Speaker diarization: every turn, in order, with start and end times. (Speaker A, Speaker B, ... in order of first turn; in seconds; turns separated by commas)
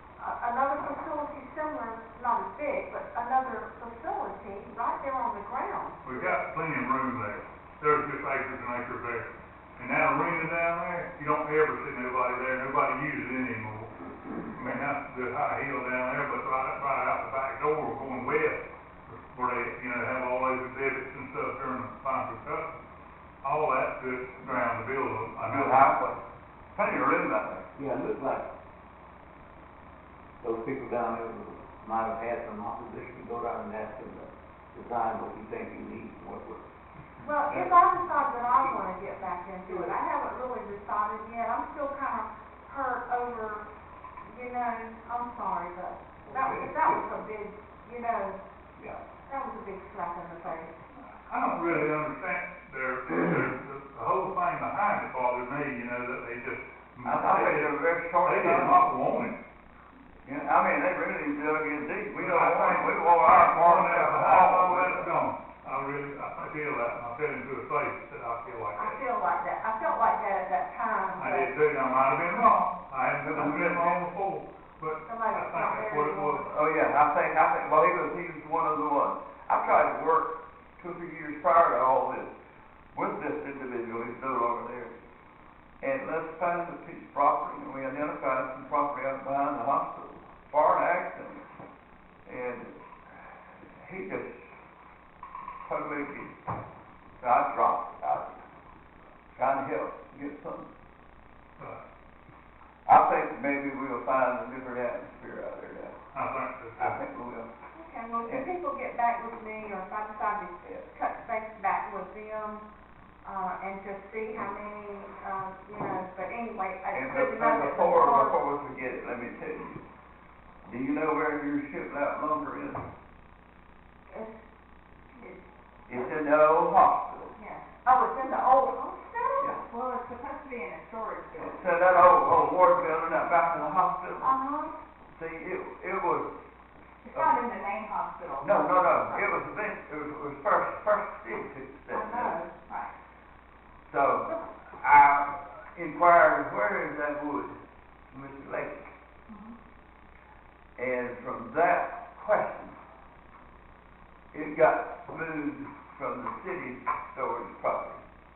Speaker A: 0.2-6.0, Speaker B: 6.0-13.9, Speaker B: 14.5-22.7, Speaker B: 23.4-25.9, Speaker C: 25.4-26.2, Speaker C: 26.7-28.1, Speaker D: 27.8-28.4, Speaker D: 30.4-36.6, Speaker A: 37.2-43.7, Speaker D: 37.4-37.8, Speaker A: 44.2-48.4, Speaker D: 46.3-47.0, Speaker A: 49.2-50.7, Speaker B: 50.9-59.4, Speaker C: 57.0-58.8, Speaker C: 60.2-65.2, Speaker B: 62.1-69.0, Speaker A: 68.8-71.5, Speaker B: 71.2-76.5, Speaker C: 73.2-74.0, Speaker A: 75.1-76.4, Speaker C: 76.4-82.3, Speaker C: 82.9-84.9, Speaker C: 85.8-91.5, Speaker C: 92.2-92.8, Speaker C: 93.8-94.5, Speaker C: 95.6-96.4, Speaker C: 97.2-98.4, Speaker C: 99.3-100.7, Speaker B: 101.6-101.8, Speaker C: 102.8-105.9, Speaker B: 106.1-107.0, Speaker C: 106.8-107.5, Speaker A: 107.7-112.6, Speaker A: 113.2-118.4, Speaker C: 116.9-119.8, Speaker C: 120.6-122.9, Speaker E: 125.2-125.4, Speaker C: 125.9-127.3, Speaker E: 127.3-127.7, Speaker A: 127.8-129.5, Speaker E: 129.6-131.7, Speaker C: 131.4-134.3, Speaker A: 134.2-134.8, Speaker C: 135.1-136.3, Speaker E: 137.0-138.6, Speaker C: 137.1-137.4, Speaker C: 138.4-142.4, Speaker A: 141.9-142.4, Speaker E: 142.0-142.9, Speaker C: 143.8-147.5, Speaker C: 148.1-148.9, Speaker E: 149.3-149.5, Speaker C: 150.8-152.8, Speaker C: 154.3-158.0